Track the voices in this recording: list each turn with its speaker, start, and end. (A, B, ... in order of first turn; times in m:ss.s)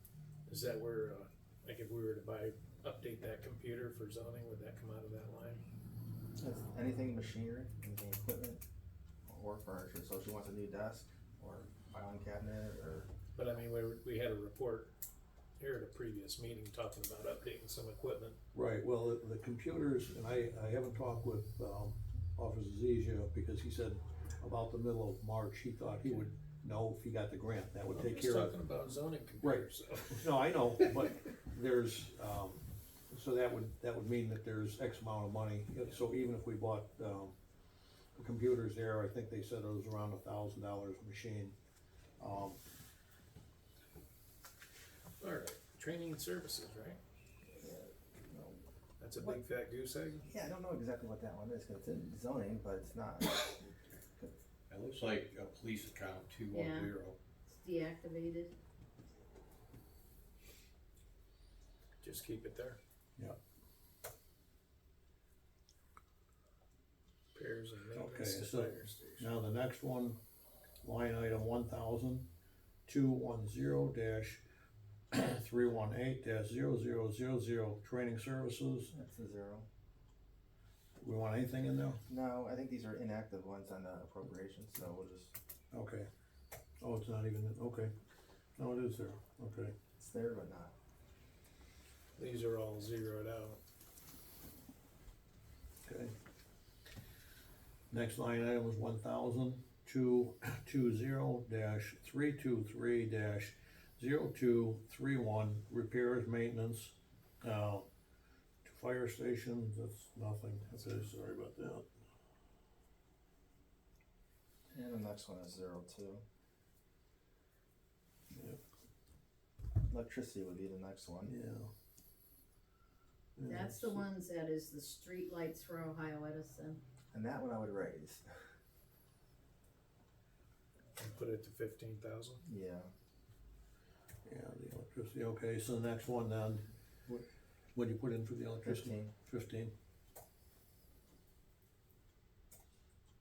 0:00.5-0:05.6 A
0:06.4-0:08.6 B
0:09.3-0:13.1 B
0:13.4-0:14.9 A
0:15.6-0:18.4 A
0:18.5-0:28.5 C
0:27.9-0:31.1 A
0:29.4-0:37.3 C
0:38.2-0:41.6 C
0:42.2-0:42.6 C
0:45.2-0:47.0 A
0:47.6-0:48.6 B
0:49.0-0:50.3 A
0:50.3-0:53.7 B
0:54.7-0:57.2 D
0:56.5-0:56.9 E
0:57.5-0:58.5 E
1:02.0-1:02.8 A
1:07.3-1:09.3 A
1:08.0-1:10.2 C
1:10.8-1:12.3 C
1:12.9-1:14.4 C
1:15.1-1:18.9 C
1:18.9-1:19.7 B
1:21.0-1:22.0 C
1:22.1-1:25.3 B
1:25.7-1:26.1 C
1:26.8-1:27.9 C
1:28.6-1:29.7 C
1:30.0-1:30.7 B
1:32.2-1:33.6 A
1:35.9-1:36.1 C
1:37.9-1:47.9 C
1:48.6-1:51.8 C
1:54.7-1:56.2 B
1:59.9-2:01.3 B
2:01.3-2:01.7 C
2:03.4-2:04.1 C
2:03.4-2:06.8 E
2:07.1-2:08.3 B
2:11.0-2:12.4 A
2:12.4-2:12.9 B
2:14.2-2:19.7 C
2:18.6-2:19.1 B